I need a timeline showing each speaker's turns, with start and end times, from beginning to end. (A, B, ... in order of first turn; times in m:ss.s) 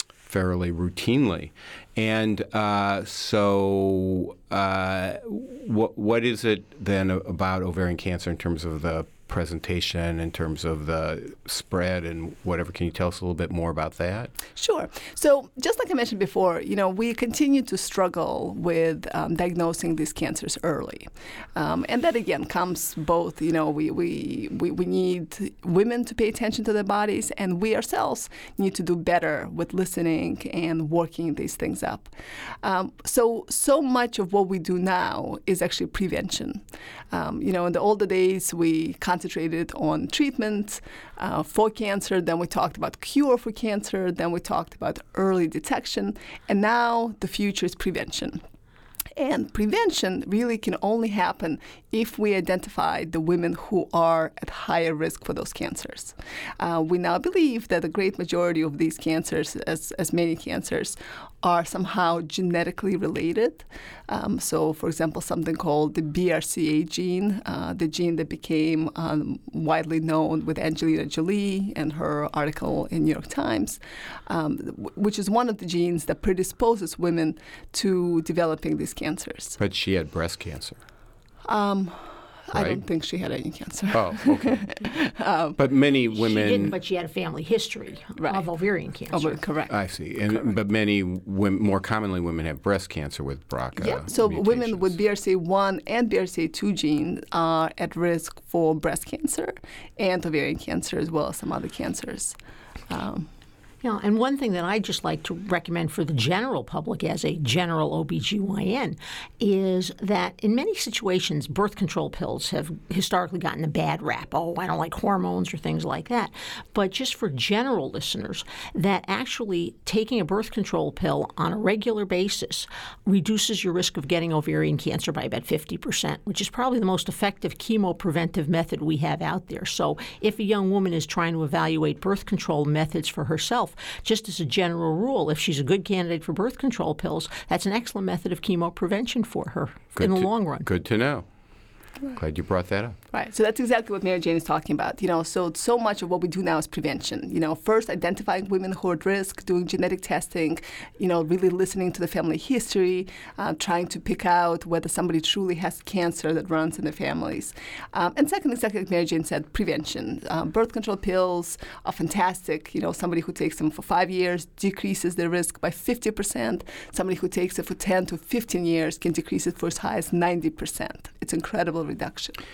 0:00.2-0:14.3 A
0:14.6-0:32.1 B
0:32.6-0:48.4 B
0:49.2-1:19.6 B
1:19.6-1:20.8 A
1:21.5-1:25.6 B
1:22.5-1:22.8 A
1:23.9-1:24.7 A
1:25.6-1:26.8 A
1:26.1-1:29.4 C
1:28.2-1:28.4 B
1:29.1-1:29.7 B
1:29.7-1:35.0 A
1:33.8-1:42.4 B
1:42.9-1:43.3 B
1:43.8-2:20.7 C
2:20.0-2:21.2 A
2:22.1-2:23.0 A
2:23.1-2:52.4 B